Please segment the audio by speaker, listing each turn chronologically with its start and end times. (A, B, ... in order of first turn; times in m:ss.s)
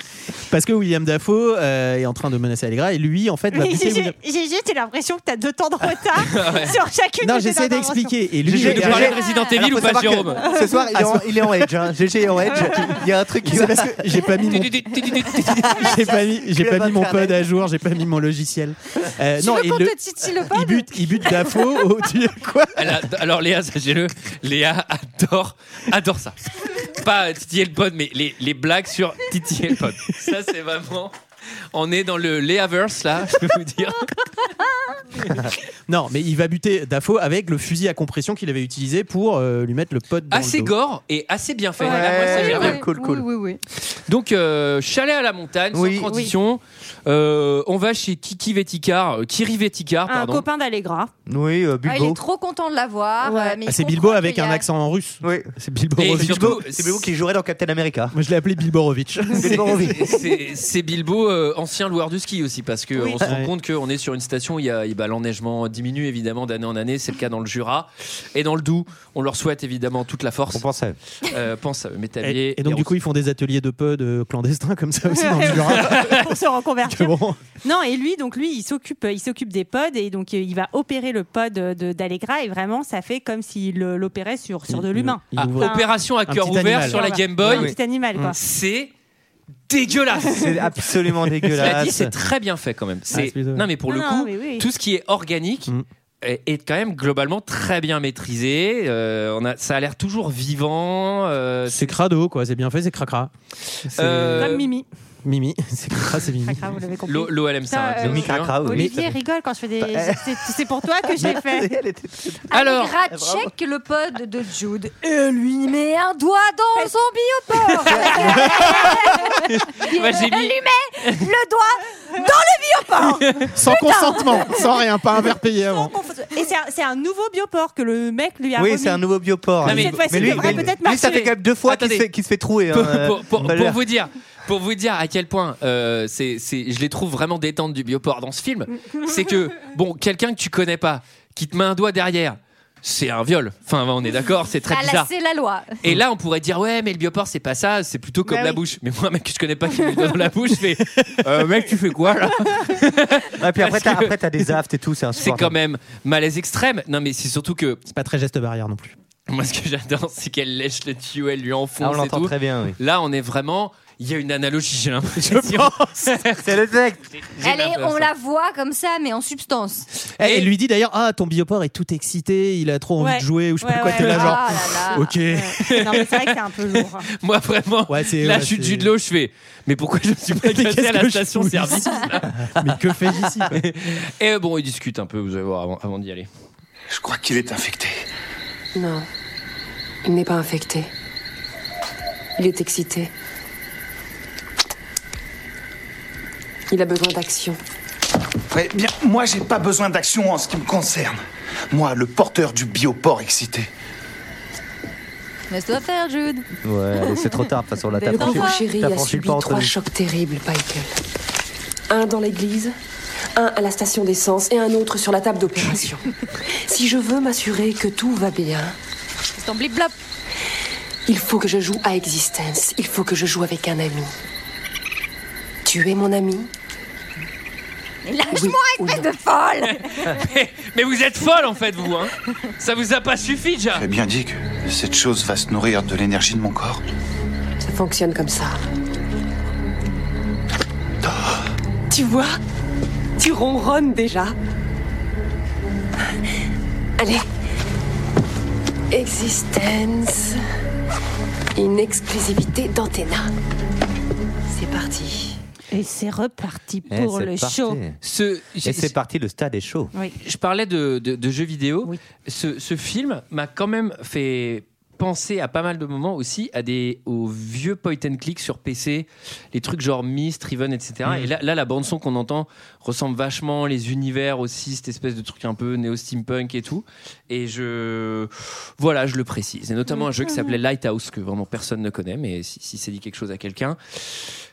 0:00.5-0:04.2 A
0:03.5-0:08.2 B
0:06.2-0:06.8 C
0:07.2-0:09.2 A
0:08.4-0:14.2 D
0:08.5-0:10.5 C
0:09.1-0:09.5 E
0:10.4-0:10.8 B
0:10.9-0:11.9 A
0:12.5-0:14.9 A
0:14.4-0:16.0 C
0:15.4-0:17.4 D
0:15.7-0:23.0 A
0:19.4-0:21.7 E
0:22.8-0:31.1 C
0:31.7-0:34.5 C
0:35.9-0:40.7 A
0:40.3-0:42.8 C
0:41.8-0:42.7 B
0:41.8-0:43.3 D
0:42.2-0:43.6 E
0:44.1-0:50.4 C
0:45.7-0:46.1 D
0:46.1-0:46.3 B
0:50.1-0:51.1 B
0:51.3-0:52.2 D
0:51.8-0:54.6 E
0:53.2-0:53.6 B
0:53.7-0:56.6 A
0:55.2-0:55.5 D
0:56.0-0:57.1 C
0:56.1-0:58.2 D
0:58.1-1:00.0 A
0:59.4-1:00.2 D
0:59.4-1:10.6 C
1:03.2-1:03.5 A
1:10.5-1:11.0 D
1:11.2-1:12.9 C
1:12.2-1:16.1 A
1:15.1-1:26.0 B
1:15.6-1:16.2 C
1:16.8-1:17.4 A
1:24.7-1:27.0 A
1:25.4-1:28.9 C
1:26.8-1:28.4 B
1:27.4-1:27.8 D
1:29.7-1:30.6 C
1:30.3-1:32.1 D
1:31.5-1:31.7 A
1:31.5-1:42.0 C
1:33.1-1:33.7 A
1:33.9-1:34.7 B
1:41.7-1:43.3 A
1:43.9-1:44.6 A
1:44.0-1:44.7 C
1:44.4-1:44.9 B
1:45.2-1:46.8 A
1:46.3-1:51.7 B
1:47.1-1:48.6 C
1:48.0-1:49.2 D
1:48.7-1:49.0 A
1:49.8-1:50.6 D
1:51.1-1:52.5 D
1:52.5-2:04.6 E
1:52.5-1:53.0 C
1:53.1-1:53.5 D
1:57.8-2:01.2 C
1:57.9-1:58.8 D
2:03.2-2:03.5 C
2:03.6-2:06.0 A
2:05.6-2:09.0 B
2:08.6-2:13.8 D
2:09.6-2:11.4 B
2:09.6-2:12.1 C
2:12.7-2:25.1 C
2:24.7-2:25.8 E
2:25.8-2:34.2 C
2:28.2-2:28.6 B
2:31.0-2:31.2 A
2:33.4-2:35.5 D
2:35.2-2:37.8 C
2:37.9-2:39.0 A
2:39.3-2:46.5 C
2:41.8-2:42.8 D
2:45.2-2:46.2 A
2:46.4-2:47.0 D
2:47.2-2:48.1 C
2:47.4-2:49.9 E
2:50.2-2:50.5 C
2:50.2-2:55.8 A
2:53.0-2:54.4 B
2:54.0-2:55.1 E
2:55.3-2:57.1 B
2:55.6-3:02.5 C
2:57.9-2:58.9 A
3:00.4-3:03.6 A
3:03.5-3:06.3 C
3:06.9-3:08.1 F
3:08.8-3:09.1 G
3:10.0-3:10.9 G
3:12.4-3:13.1 G
3:16.7-3:17.6 G
3:18.5-3:23.7 F
3:25.5-3:26.5 E
3:26.6-3:29.7 D
3:27.0-3:27.3 E
3:28.0-3:28.7 E
3:28.1-3:30.9 G
3:31.9-3:32.7 G
3:33.4-3:36.1 G
3:36.7-3:38.8 G
3:39.4-3:40.0 E
3:41.1-3:44.1 G
3:45.6-3:46.5 G
3:48.0-3:50.2 E
3:48.3-3:49.1 G
3:49.6-3:53.8 C
3:53.8-3:56.8 F
3:57.6-3:58.6 G
4:01.1-4:01.3 F
4:01.9-4:02.4 G
4:03.2-4:04.3 G
4:07.0-4:07.2 G
4:08.9-4:10.4 G
4:11.6-4:13.3 G
4:14.5-4:15.4 G
4:15.7-4:17.8 B
4:16.9-4:18.0 D
4:18.0-4:18.9 C
4:18.6-4:19.9 D
4:20.2-4:44.3 C
4:40.0-4:40.5 B